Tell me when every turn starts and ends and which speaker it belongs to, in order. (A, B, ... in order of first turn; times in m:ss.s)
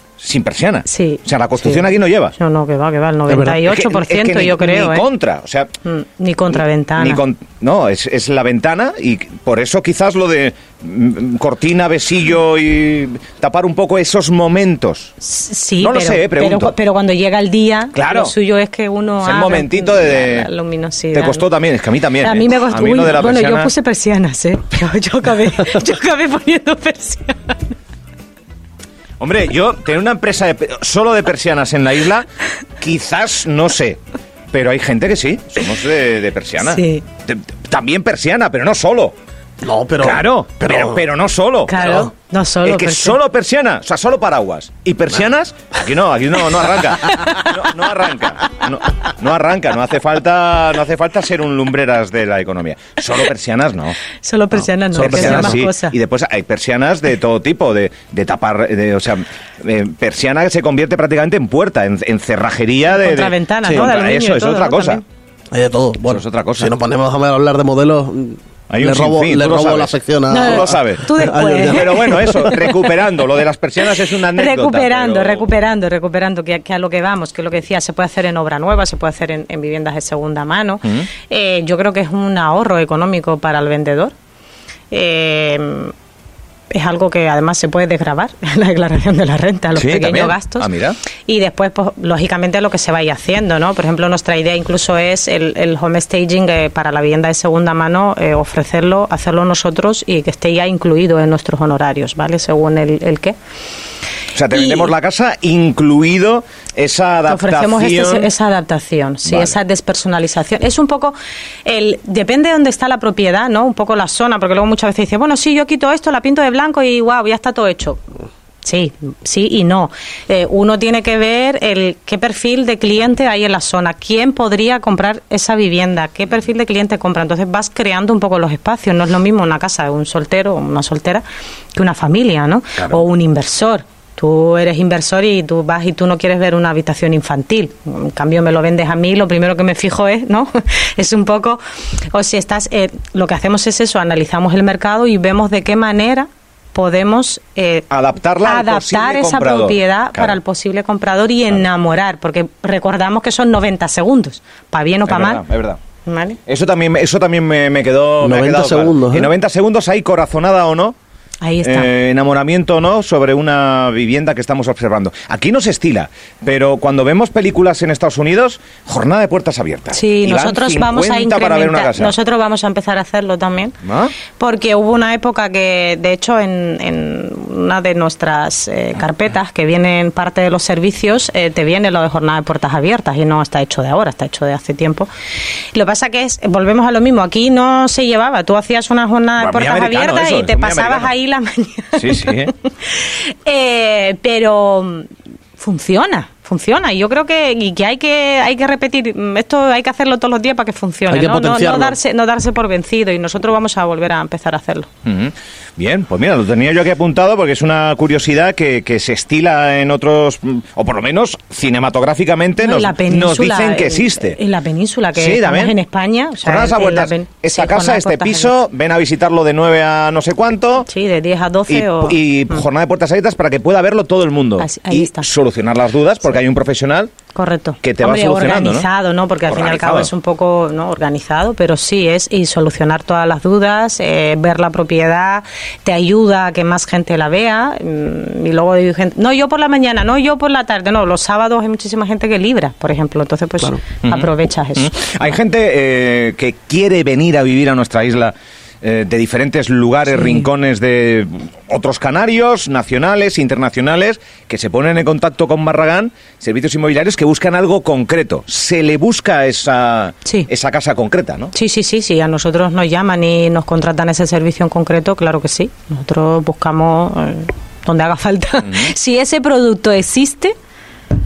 0:00.2-0:02.3 A
0:00.9-0:05.1 B
0:03.3-0:03.6 C
0:03.6-0:05.7 A
0:05.8-0:07.2 B
0:06.5-0:15.1 A
0:15.2-0:21.5 B
0:15.8-0:16.7 A
0:18.0-0:18.4 A
0:19.2-0:20.5 A
0:21.1-0:23.7 A
0:22.2-0:27.8 B
0:29.2-0:32.3 A
0:32.8-0:34.0 A
0:34.5-0:39.1 A
0:36.6-0:37.0 B
0:39.6-0:41.0 C
0:40.0-0:42.1 A
0:41.7-0:43.2 B
0:42.6-0:54.0 A
0:54.2-0:56.0 B
0:54.6-1:05.0 A
0:54.9-0:55.6 C
1:02.9-1:05.0 B
1:05.5-1:12.6 C
1:06.1-1:06.8 A
1:08.7-1:15.5 A
1:10.3-1:12.8 B
1:14.3-1:24.1 B
1:24.9-1:25.9 B
1:26.7-1:30.7 B
1:29.8-1:31.0 A
1:31.3-1:43.4 B
1:44.3-1:48.3 A
1:44.6-1:44.9 B
1:47.3-1:51.2 B
1:49.2-1:49.5 A
1:51.7-1:58.0 B
1:58.6-2:21.6 B
2:22.1-2:27.9 B
2:27.9-2:30.4 A
2:28.4-2:35.4 B
2:35.0-2:35.8 A
2:36.1-2:36.4 B
2:36.5-2:41.0 A
2:38.2-2:39.3 C
2:41.4-2:41.9 B
2:41.6-2:52.2 A
2:49.9-2:53.8 B
2:53.8-2:54.2 A
2:54.4-3:05.1 B
3:05.7-3:24.9 B
3:09.4-3:11.1 A
3:12.0-3:12.5 A
3:21.1-3:22.0 C
3:25.0-3:34.4 A
3:32.6-3:38.6 B
3:35.1-3:35.8 A
3:36.4-3:40.9 A
3:40.8-3:42.6 B
3:41.7-3:47.1 A
3:44.6-3:45.3 B
3:47.3-4:04.9 B
3:47.8-3:48.9 A
3:49.5-3:50.1 A
4:04.0-4:21.5 A
4:21.5-4:30.5 B
4:28.6-4:28.9 A